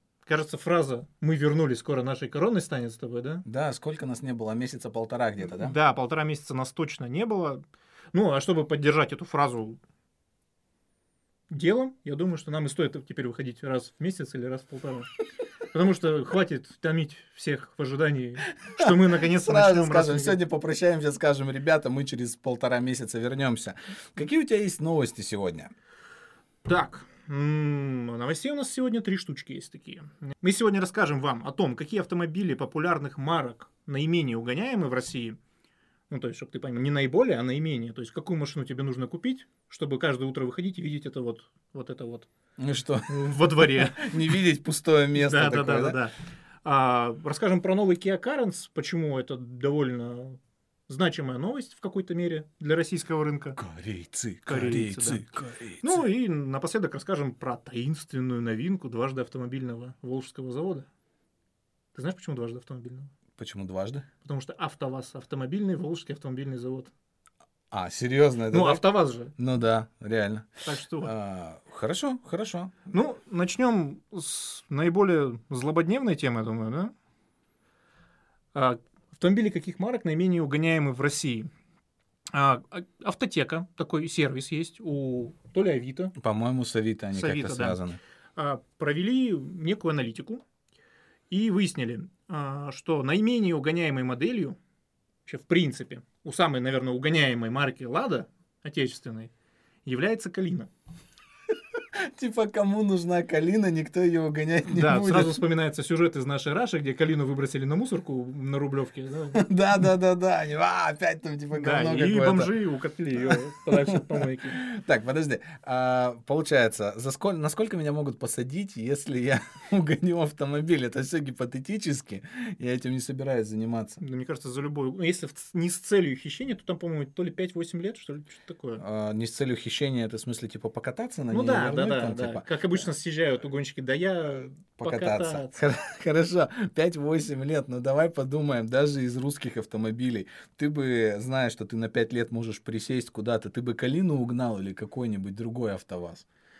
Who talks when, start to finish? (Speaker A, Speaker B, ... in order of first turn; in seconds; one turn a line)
Speaker A: 0.2-3.4
Speaker B: 3.4-5.8
Speaker A: 5.5-7.6
Speaker A: 8.1-9.8
Speaker A: 11.5-15.1
Speaker A: 15.7-20.4
Speaker B: 18.6-25.7
Speaker A: 26.6-35.4
Speaker A: 36.1-42.3
Speaker B: 42.6-46.0
Speaker A: 43.1-44.4
Speaker A: 45.1-53.6
Speaker B: 53.6-56.0
Speaker A: 54.5-60.9
Speaker A: 61.9-63.1
Speaker B: 63.4-64.1
Speaker A: 64.2-66.9
Speaker B: 67.7-70.5
Speaker A: 68.5-69.3
Speaker A: 70.6-71.1
Speaker B: 71.0-72.7
Speaker A: 72.9-76.9
Speaker A: 78.5-81.5
Speaker A: 82.3-86.1
Speaker B: 86.2-88.0
Speaker A: 87.1-87.8
Speaker A: 88.3-90.4
Speaker A: 91.3-94.6
Speaker A: 95.2-99.3
Speaker A: 99.8-100.7
Speaker B: 101.7-105.4
Speaker A: 104.7-109.5
Speaker B: 109.3-112.5
Speaker A: 111.5-114.6
Speaker B: 113.2-124.0
Speaker A: 124.0-128.8
Speaker B: 128.8-132.9
Speaker A: 131.3-135.6
Speaker B: 134.8-146.2